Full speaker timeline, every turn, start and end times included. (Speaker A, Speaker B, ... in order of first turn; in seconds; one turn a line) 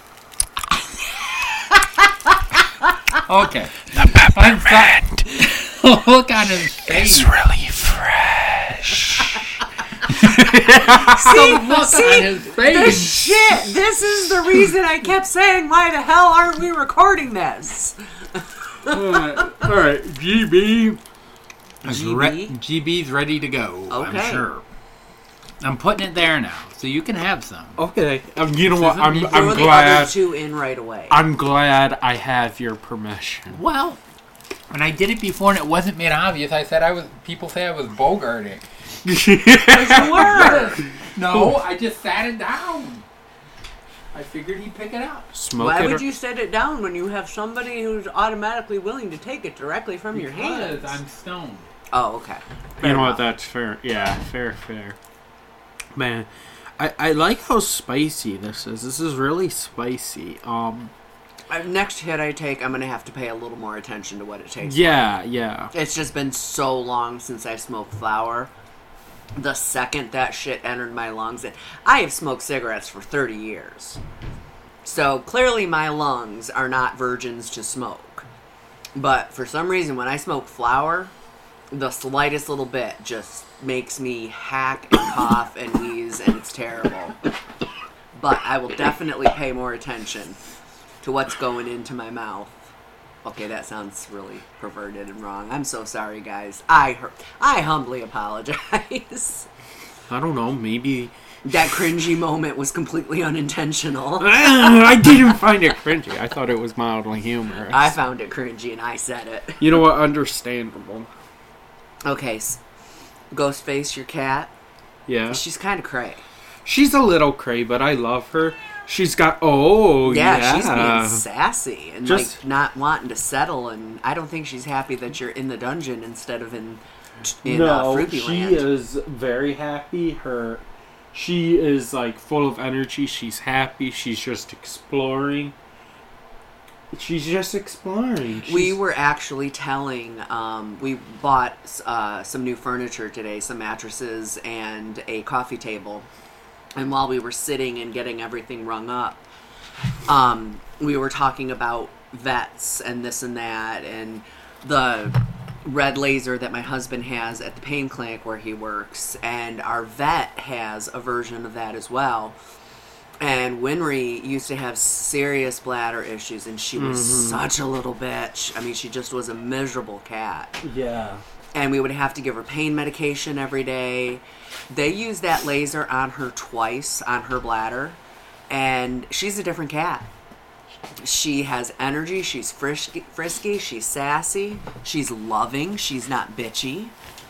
Speaker A: 1.3-3.2
Speaker B: 3.2-7.4
Speaker C: 3.9-5.2
Speaker C: 6.8-9.3
Speaker B: 10.1-13.7
Speaker C: 10.3-11.4
Speaker A: 11.0-19.5
Speaker C: 18.9-20.9
Speaker B: 19.0-20.9
Speaker A: 21.8-22.6
Speaker B: 21.8-24.6
Speaker A: 23.9-24.5
Speaker B: 25.6-27.8
Speaker C: 27.8-30.2
Speaker B: 28.6-29.8
Speaker A: 29.2-31.2
Speaker C: 31.1-33.6
Speaker B: 33.5-34.0
Speaker B: 34.7-38.6
Speaker C: 39.0-40.8
Speaker A: 39.7-40.8
Speaker B: 39.9-43.0
Speaker B: 44.1-45.3
Speaker C: 45.3-46.0
Speaker A: 45.6-51.0
Speaker B: 50.1-51.7
Speaker A: 51.9-53.2
Speaker C: 52.8-55.0
Speaker C: 55.9-60.9
Speaker A: 61.5-65.0
Speaker C: 64.6-65.7
Speaker A: 65.7-68.5
Speaker A: 69.3-74.0
Speaker A: 74.8-78.2
Speaker A: 79.0-81.1
Speaker A: 81.7-87.2
Speaker A: 88.1-90.4
Speaker A: 91.0-92.6
Speaker A: 93.2-99.5
Speaker C: 100.1-101.8
Speaker A: 101.4-105.2
Speaker C: 104.2-107.9
Speaker A: 107.7-109.7
Speaker C: 109.6-111.1
Speaker A: 112.0-112.6
Speaker A: 113.3-114.5
Speaker C: 115.1-115.4
Speaker A: 115.3-116.2
Speaker C: 116.6-121.2
Speaker A: 120.0-128.7
Speaker C: 122.0-122.4
Speaker C: 127.4-135.5
Speaker C: 136.9-138.8
Speaker A: 138.4-146.1
Speaker A: 146.8-149.2
Speaker A: 150.1-162.4
Speaker A: 163.2-170.6
Speaker C: 166.8-167.4
Speaker C: 170.6-171.2
Speaker A: 171.5-178.0
Speaker A: 178.5-180.1
Speaker A: 181.0-186.9